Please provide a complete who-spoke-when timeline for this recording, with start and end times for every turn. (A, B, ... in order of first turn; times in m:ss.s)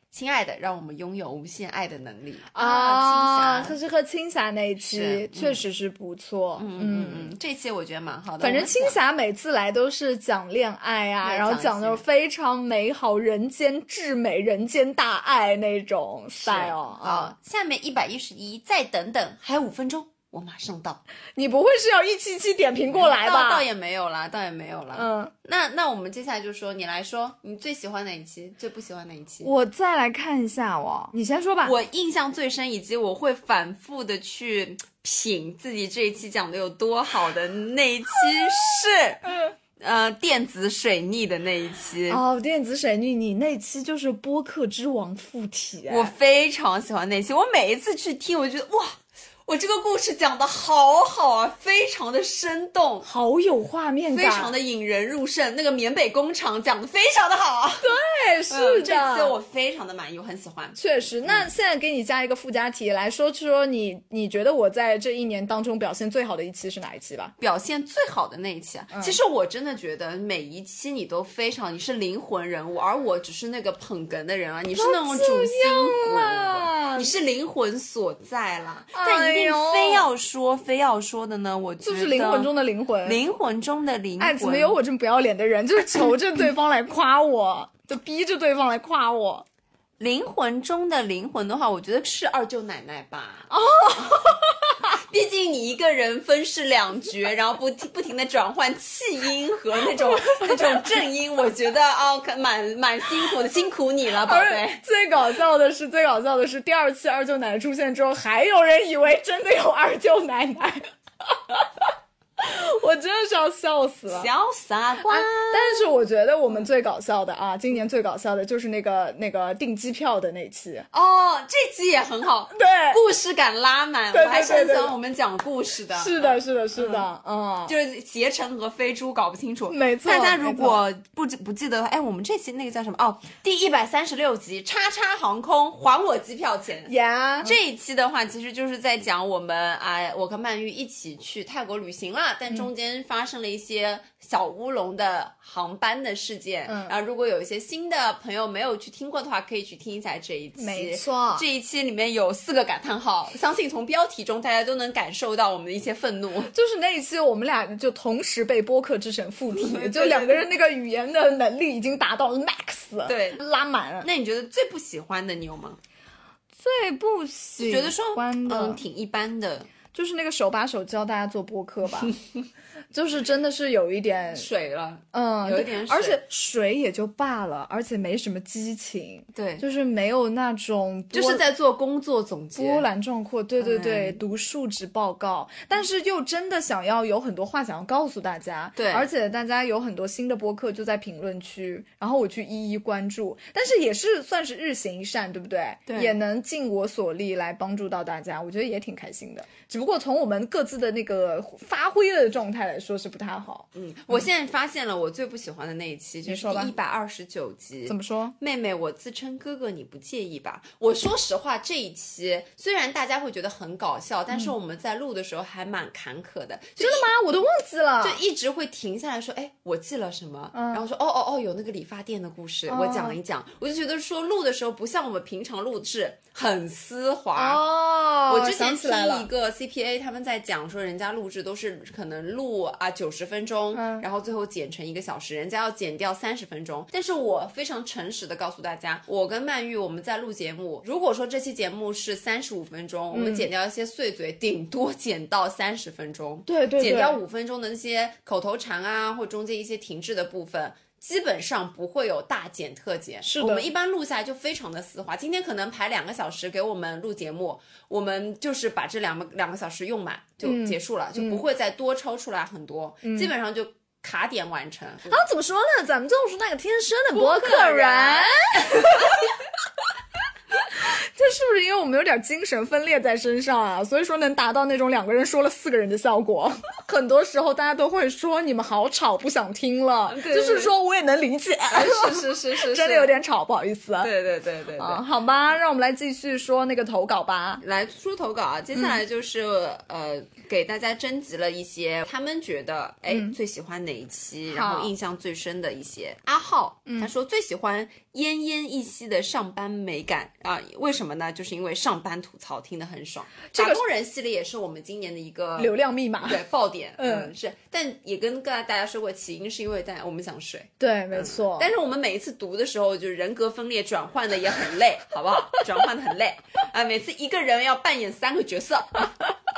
0:00.1-0:03.8 A
0:02.5-0:07.4 B
0:04.9-0:05.6 A
0:06.6-0:09.0 A
0:08.4-0:17.3 B
0:11.2-0:12.0 A
0:16.4-0:21.0 A
0:21.4-0:23.7 B
0:22.9-0:29.5 A
0:25.0-0:25.3 B
0:29.4-0:31.8 B
0:31.6-0:42.2 A
0:42.1-0:46.1 B
0:45.9-0:53.1 A
0:53.0-0:54.5 B
0:54.1-0:58.0 A
0:57.8-0:59.4 B
0:58.5-1:01.5 A
1:00.8-1:07.3 B
1:07.4-1:22.5 A
1:08.9-1:09.2 B
1:14.8-1:17.1 B
1:18.9-1:20.1 B
1:21.8-1:23.2 B
1:23.0-1:24.8 A
1:24.2-1:29.5 B
1:30.0-1:33.5 A
1:33.5-1:34.9 B
1:35.0-1:44.8 A
1:40.0-1:40.9 B
1:44.2-1:54.3 B
1:54.1-1:55.9 A
1:55.0-2:00.9 B
2:00.9-2:07.0 A
2:02.5-2:03.0 B
2:04.1-2:04.9 B
2:05.9-2:07.7 B
2:07.7-2:36.5 A
2:09.7-2:10.8 B
2:16.9-2:17.6 B
2:26.7-2:26.9 B
2:30.6-2:31.4 B
2:36.5-2:44.1 B
2:39.5-2:40.4 A
2:43.0-2:43.4 A
2:44.0-2:45.8 A
2:46.6-2:48.8 B
2:47.6-2:49.7 A
2:49.9-2:52.2 B
2:52.9-2:54.5 B
2:54.3-2:56.2 A
2:55.1-3:01.4 B
2:59.3-2:59.6 A
3:01.1-3:02.9 A
3:02.6-3:23.7 B
3:03.6-3:04.2 A
3:08.8-3:09.1 A
3:15.9-3:16.2 A
3:23.8-3:37.1 A
3:26.3-3:26.7 B
3:27.9-3:28.4 B
3:36.8-3:38.2 B
3:38.0-3:47.6 A
3:40.5-3:40.8 B
3:42.7-3:43.2 B
3:47.4-3:49.3 B
3:48.3-4:25.2 A
3:53.7-3:54.0 B
4:03.1-4:03.5 B
4:06.5-4:07.2 B
4:13.2-4:13.7 B
4:20.4-4:21.4 B
4:23.0-4:23.3 B
4:25.1-4:29.3 B
4:27.1-4:29.2 A
4:30.6-4:44.1 B
4:40.1-4:40.7 A
4:41.7-4:43.1 A
4:44.0-4:45.0 A
4:44.8-4:47.6 B
4:47.6-5:05.7 A
4:53.1-4:53.4 B
4:54.5-4:54.9 B
4:56.9-4:57.1 B
5:03.5-5:03.8 B
5:05.6-5:06.4 B
5:06.2-5:19.1 A
5:07.0-5:07.3 B
5:10.8-5:11.7 B